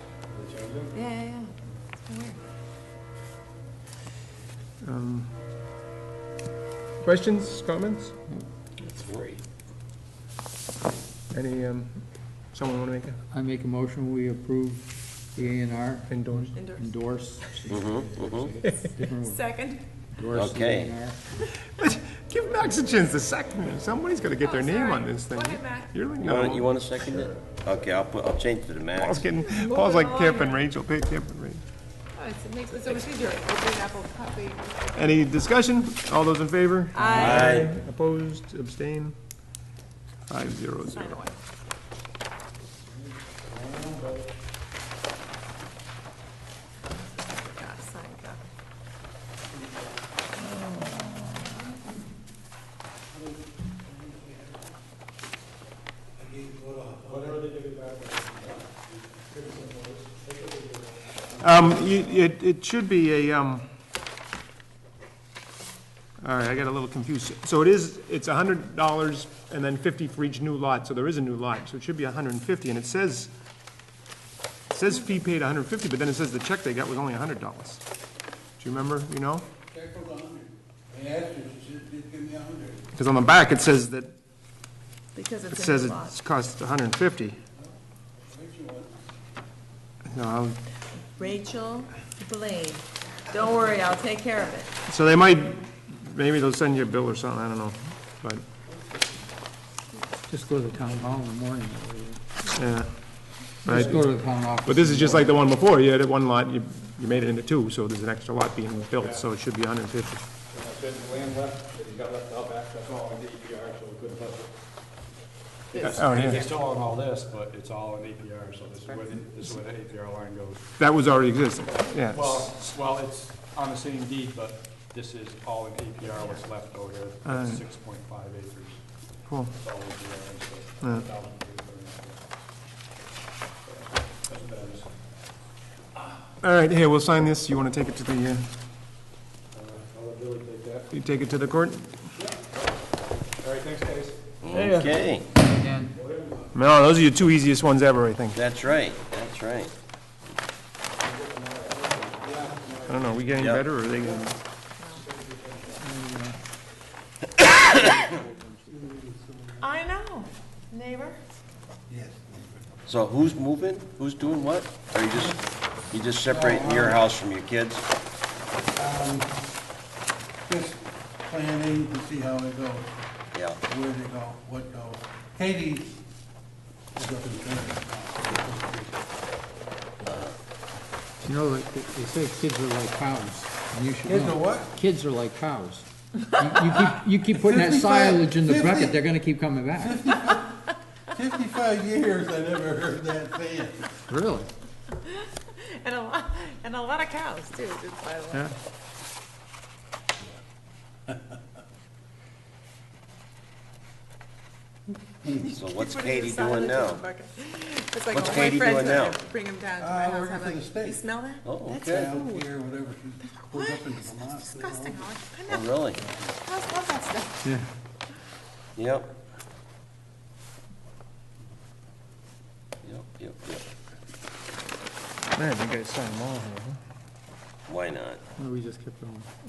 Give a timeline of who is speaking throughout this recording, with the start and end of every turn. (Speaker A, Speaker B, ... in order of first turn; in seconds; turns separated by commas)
Speaker A: 0.3-1.0, Speaker B: 0.9-1.5, Speaker B: 2.0-2.4, Speaker C: 4.8-5.3, Speaker C: 7.0-8.1, Speaker D: 8.8-9.4, Speaker C: 11.3-13.2, Speaker E: 13.3-19.4, Speaker C: 16.1-16.5, Speaker B: 16.6-16.9, Speaker D: 17.7-18.5, Speaker B: 19.2-19.8, Speaker E: 20.1-21.2, Speaker D: 20.3-20.9, Speaker C: 21.7-27.3, Speaker B: 24.4-25.9, Speaker D: 26.2-29.2, Speaker C: 29.0-31.6, Speaker B: 29.4-30.6, Speaker B: 32.1-34.9, Speaker C: 35.0-39.1, Speaker B: 36.9-37.6, Speaker D: 37.1-37.7, Speaker C: 40.3-41.2, Speaker B: 40.9-41.4, Speaker F: 43.7-44.0, Speaker B: 46.9-48.5, Speaker F: 53.1-54.7, Speaker F: 56.2-57.4, Speaker A: 57.0-62.0, Speaker C: 61.4-63.6, Speaker C: 66.2-73.3, Speaker C: 74.7-77.8, Speaker C: 78.6-79.5, Speaker F: 79.7-82.9, Speaker C: 82.9-84.1, Speaker B: 85.2-86.2, Speaker C: 85.5-87.4, Speaker F: 88.3-88.9, Speaker C: 90.1-90.6, Speaker B: 91.0-94.7, Speaker C: 94.9-98.4, Speaker E: 100.3-102.2, Speaker C: 102.5-103.0, Speaker C: 103.6-104.0, Speaker E: 103.7-105.3, Speaker C: 104.7-110.3, Speaker A: 109.0-109.2, Speaker A: 110.5-114.5, Speaker A: 115.7-120.6, Speaker C: 115.8-116.5, Speaker C: 120.8-122.7, Speaker A: 121.9-128.8, Speaker C: 127.2-127.6, Speaker C: 129.3-129.5, Speaker A: 129.5-132.3, Speaker A: 133.6-134.9, Speaker C: 136.4-138.5, Speaker A: 139.5-140.9, Speaker C: 140.9-142.0, Speaker A: 142.2-142.6, Speaker A: 143.4-144.2, Speaker D: 144.4-145.3, Speaker C: 144.5-145.1, Speaker E: 145.5-145.9, Speaker A: 145.9-146.5, Speaker C: 146.5-148.4, Speaker D: 148.3-149.7, Speaker A: 151.1-153.4, Speaker C: 152.9-154.4, Speaker D: 153.4-153.7, Speaker B: 154.8-155.0, Speaker A: 155.0-155.7, Speaker E: 155.8-156.4, Speaker D: 157.5-157.8, Speaker F: 158.7-159.7, Speaker B: 159.6-161.2, Speaker F: 161.9-162.7, Speaker D: 162.9-167.8, Speaker F: 166.3-167.0, Speaker F: 168.8-169.3, Speaker F: 170.5-172.9, Speaker D: 173.3-173.6, Speaker F: 173.7-176.0, Speaker F: 177.0-179.0, Speaker E: 181.2-190.1, Speaker F: 184.1-184.7, Speaker F: 187.3-189.0, Speaker F: 189.8-190.5, Speaker F: 191.1-193.9, Speaker E: 194.1-194.5, Speaker B: 195.0-198.5, Speaker B: 205.3-212.5, Speaker D: 205.6-207.1, Speaker D: 208.1-209.2, Speaker F: 209.8-211.0, Speaker D: 211.4-211.9, Speaker F: 211.8-215.2, Speaker B: 213.2-215.9, Speaker D: 215.5-216.0, Speaker B: 216.4-217.5, Speaker D: 218.8-219.1, Speaker D: 222.8-223.7, Speaker C: 225.3-226.8, Speaker D: 227.7-228.2, Speaker E: 228.4-229.3